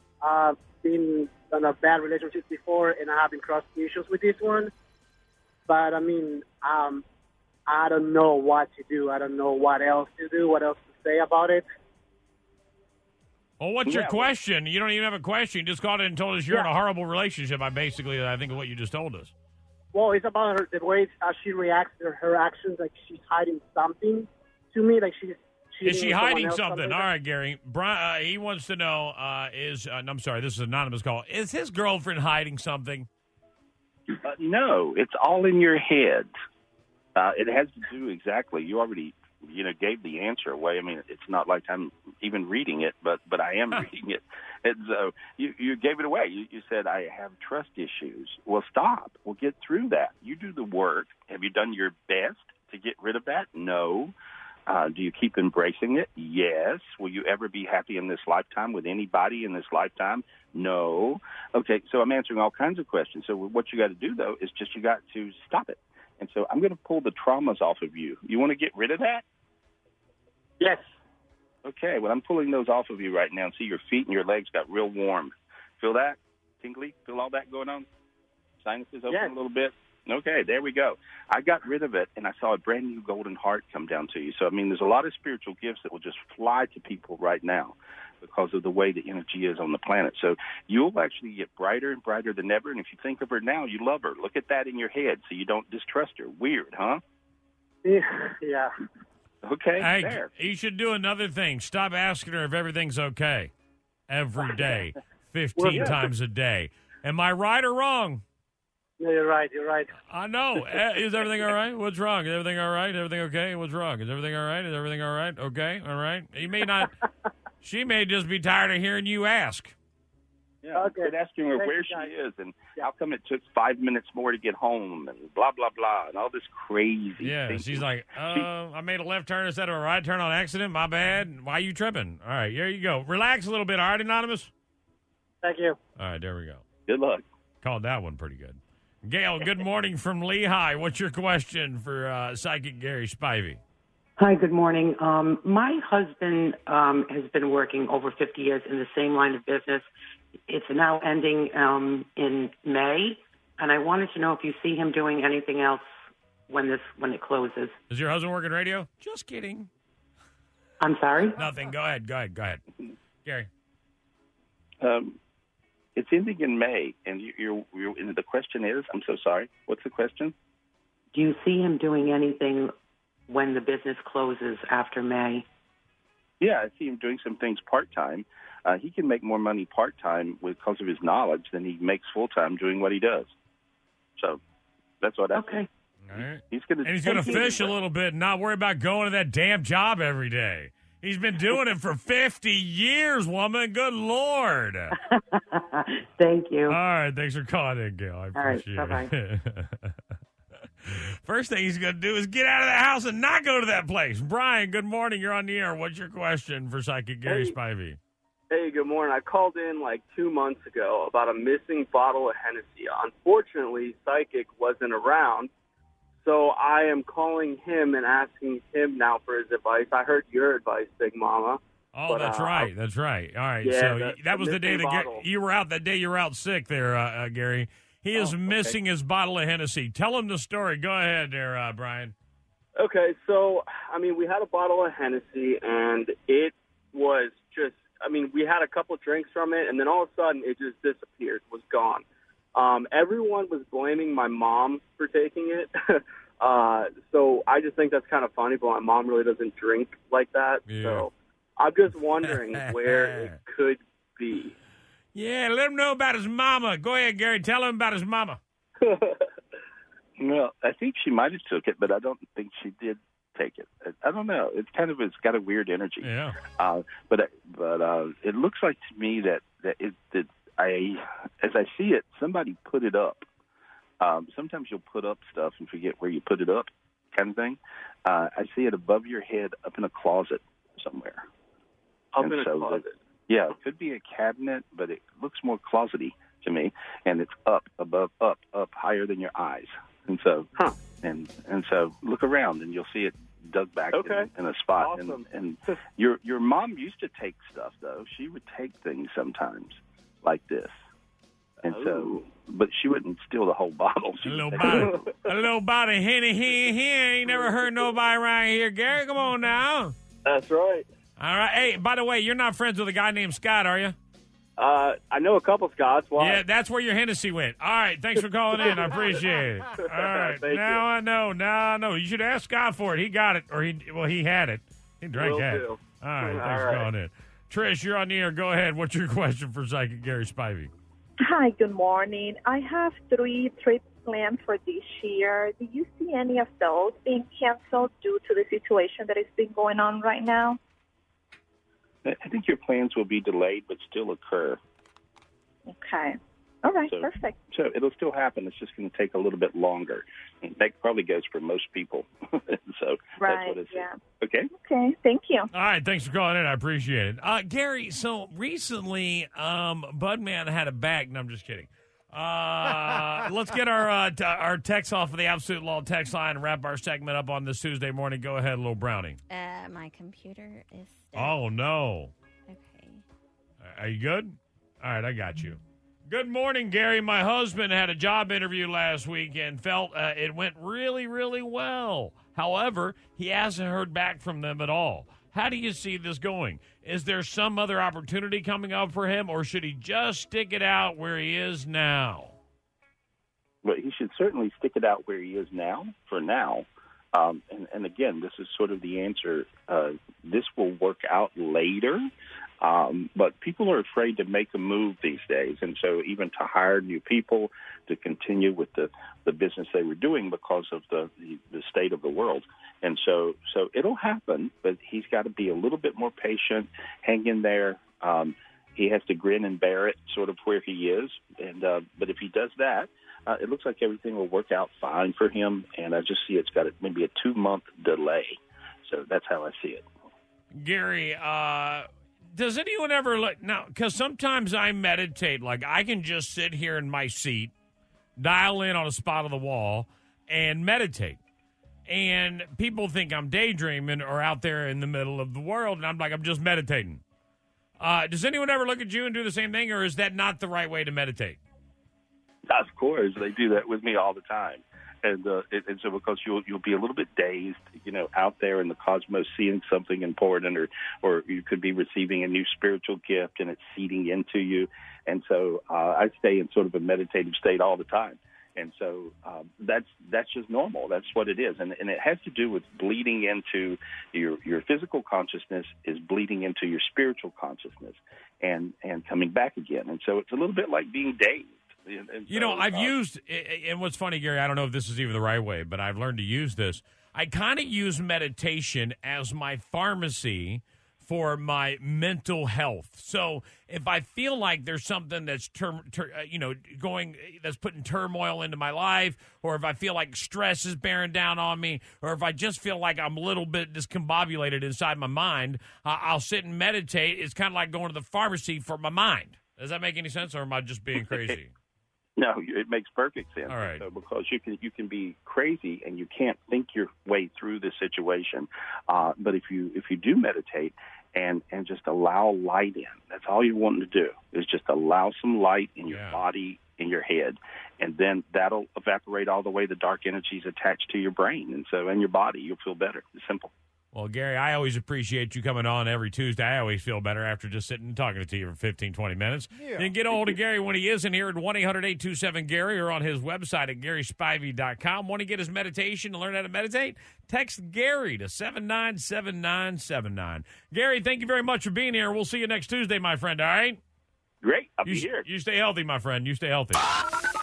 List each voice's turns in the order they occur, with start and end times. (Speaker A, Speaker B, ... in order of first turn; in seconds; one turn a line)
Speaker A: 0.2-4.7
Speaker A: 5.7-7.0
Speaker A: 7.7-11.7
Speaker B: 13.6-19.3
Speaker C: 13.9-14.3
Speaker A: 19.9-27.1
Speaker B: 25.8-33.1
Speaker C: 34.2-36.3
Speaker C: 37.2-54.1
Speaker C: 54.7-69.2
Speaker C: 71.7-77.9
Speaker C: 78.6-97.0
Speaker A: 97.8-98.7
Speaker C: 99.4-100.3
Speaker B: 99.8-103.5
Speaker B: 104.1-108.2
Speaker A: 105.6-105.9
Speaker C: 105.7-106.0
Speaker A: 109.0-109.9
Speaker B: 110.1-116.9
Speaker B: 117.6-119.8
Speaker C: 120.6-128.5
Speaker A: 120.8-122.1
Speaker B: 127.2-134.5
Speaker A: 135.4-135.8
Speaker B: 136.0-136.6
Speaker C: 136.9-137.2
Speaker B: 137.6-143.6
Speaker D: 144.2-149.8
Speaker D: 150.5-156.0
Speaker D: 156.5-157.8
Speaker B: 157.9-159.7
Speaker D: 160.8-161.4
Speaker B: 161.4-162.6
Speaker C: 164.8-165.2
Speaker C: 166.0-170.3
Speaker D: 171.1-172.7
Speaker D: 173.3-175.5
Speaker C: 176.4-183.3
Speaker C: 185.0-185.6
Speaker D: 185.3-185.7
Speaker B: 186.1-194.9
Speaker C: 186.2-187.8
Speaker D: 187.1-187.6
Speaker D: 195.1-196.8
Speaker B: 196.7-199.9
Speaker D: 198.3-199.1
Speaker B: 200.8-208.0
Speaker E: 207.3-207.6
Speaker E: 208.5-215.5
Speaker E: 216.2-222.7
Speaker B: 221.9-232.1
Speaker E: 223.6-225.3
Speaker E: 228.2-228.8
Speaker E: 232.8-242.0
Speaker E: 242.6-245.7
Speaker E: 246.4-254.6
Speaker B: 250.7-251.1
Speaker B: 252.2-253.4
Speaker B: 255.1-258.4
Speaker E: 258.8-259.2
Speaker C: 260.2-273.3
Speaker B: 266.0-266.4
Speaker C: 274.0-281.2
Speaker E: 282.1-282.9
Speaker C: 282.2-290.5
Speaker C: 291.0-300.8
Speaker E: 293.9-295.2
Speaker E: 301.6-302.2
Speaker C: 301.6-305.1
Speaker B: 304.2-309.9
Speaker E: 304.6-305.3
Speaker E: 307.3-307.9
Speaker E: 310.2-310.9
Speaker B: 311.2-314.0
Speaker E: 314.6-316.4
Speaker B: 316.2-330.7
Speaker E: 318.2-319.2
Speaker E: 319.8-320.9
Speaker E: 325.1-326.9
Speaker F: 331.2-340.6
Speaker C: 342.1-344.6
Speaker F: 345.7-347.4
Speaker C: 346.9-354.5
Speaker F: 353.2-354.0
Speaker F: 354.6-355.5
Speaker B: 355.5-369.2
Speaker G: 369.3-371.4
Speaker B: 371.1-372.1
Speaker G: 372.5-373.0
Speaker B: 373.6-392.4
Speaker C: 393.6-402.1
Speaker C: 402.6-429.8
Speaker B: 430.5-437.5
Speaker B: 438.2-441.2
Speaker B: 441.9-447.0
Speaker B: 447.8-451.4
Speaker C: 452.5-482.9
Speaker B: 482.3-511.5
Speaker C: 512.2-533.5
Speaker B: 513.5-513.9
Speaker B: 525.9-526.2
Speaker B: 533.9-553.8
Speaker C: 554.4-555.3
Speaker B: 554.9-556.9